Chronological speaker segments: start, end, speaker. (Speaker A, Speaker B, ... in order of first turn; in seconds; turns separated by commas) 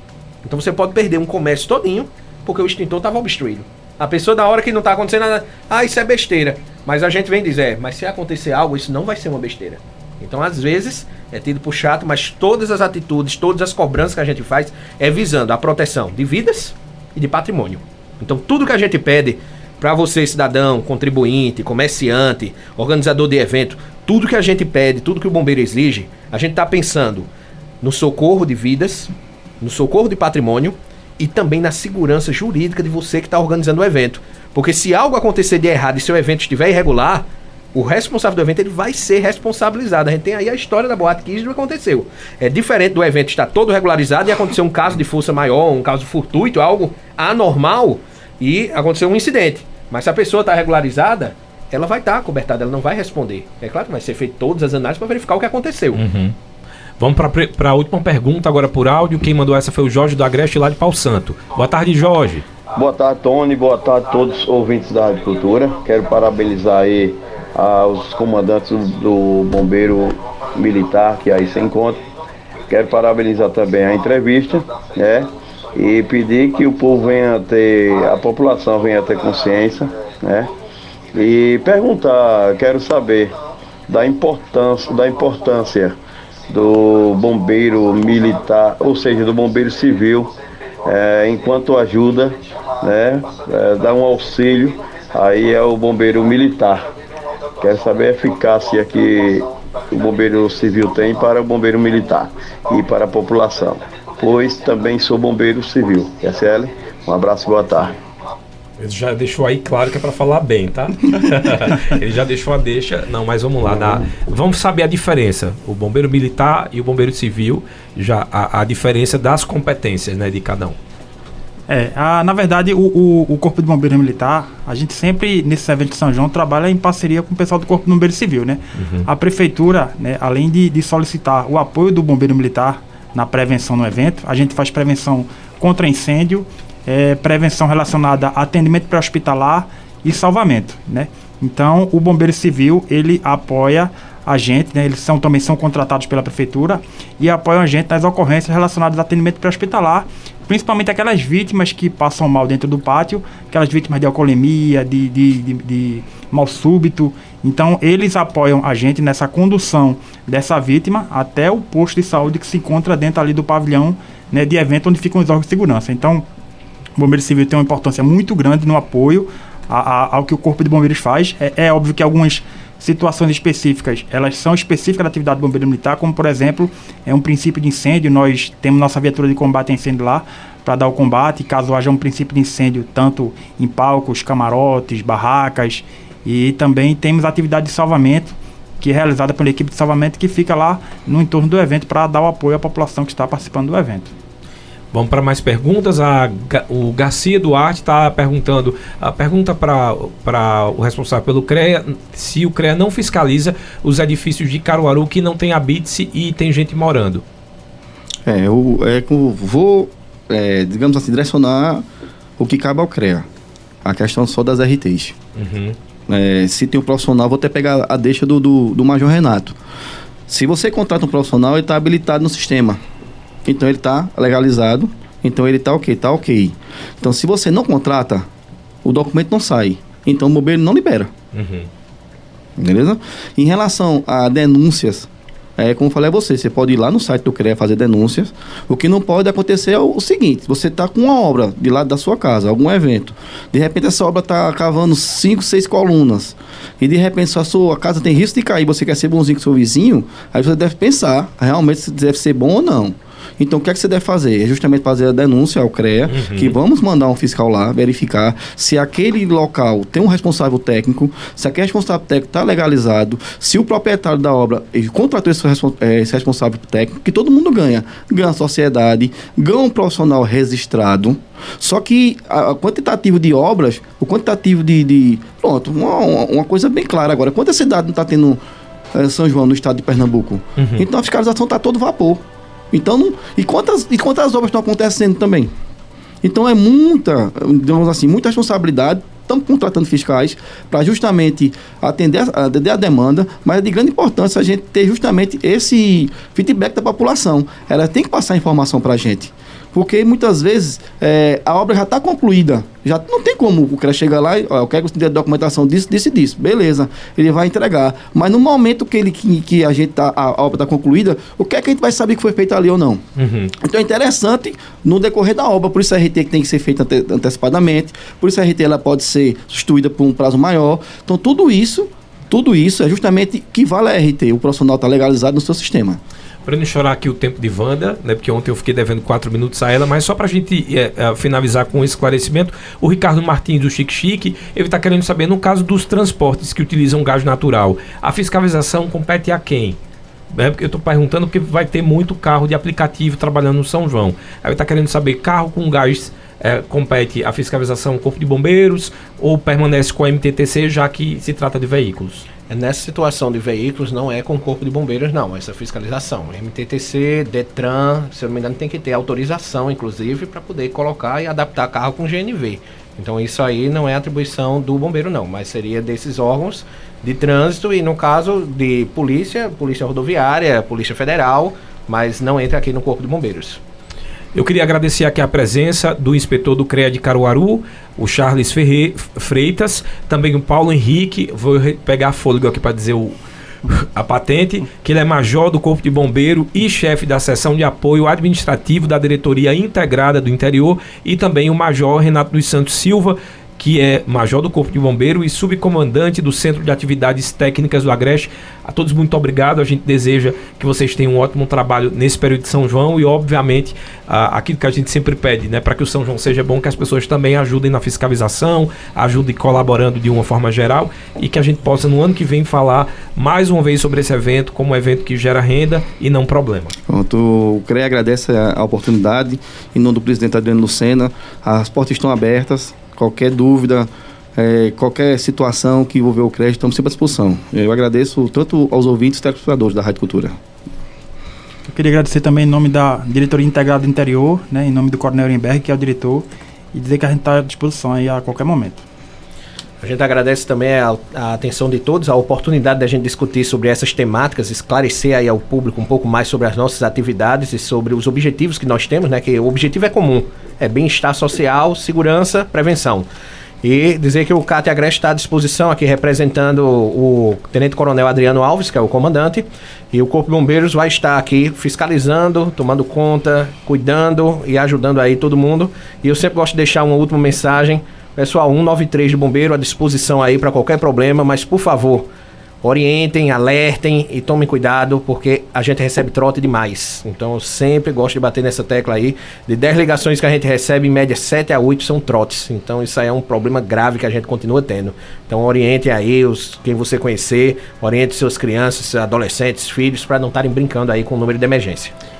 Speaker A: 0.4-27.3, Speaker A: 27.8-56.0, Speaker B: 55.9-56.4, Speaker B: 57.0-62.5, Speaker C: 62.8-72.0, Speaker C: 72.7-80.5, Speaker C: 81.1-83.4, Speaker C: 83.9-86.0, Speaker C: 86.5-96.9, Speaker C: 97.6-108.0, Speaker B: 108.8-120.8, Speaker D: 121.7-166.2, Speaker B: 128.8-129.1, Speaker D: 167.0-194.1, Speaker B: 194.9-207.2, Speaker E: 208.3-211.8, Speaker E: 212.4-213.3, Speaker E: 213.8-215.2, Speaker B: 215.4-215.8, Speaker E: 216.1-219.6, Speaker E: 220.3-222.8, Speaker E: 223.5-228.3, Speaker E: 228.8-231.1, Speaker B: 231.3-231.7, Speaker E: 232.6-278.4, Speaker B: 256.1-256.6, Speaker E: 278.9-285.5, Speaker B: 280.6-280.9, Speaker E: 286.2-313.0, Speaker B: 313.2-313.5, Speaker E: 313.6-326.0, Speaker B: 326.4-339.8, Speaker B: 340.3-352.3, Speaker A: 352.5-373.6, Speaker B: 374.4-383.2, Speaker B: 383.7-416.8, Speaker E: 416.9-430.4, Speaker D: 431.7-438.8, Speaker A: 439.8-453.1, Speaker A: 453.6-472.1, Speaker A: 472.6-491.9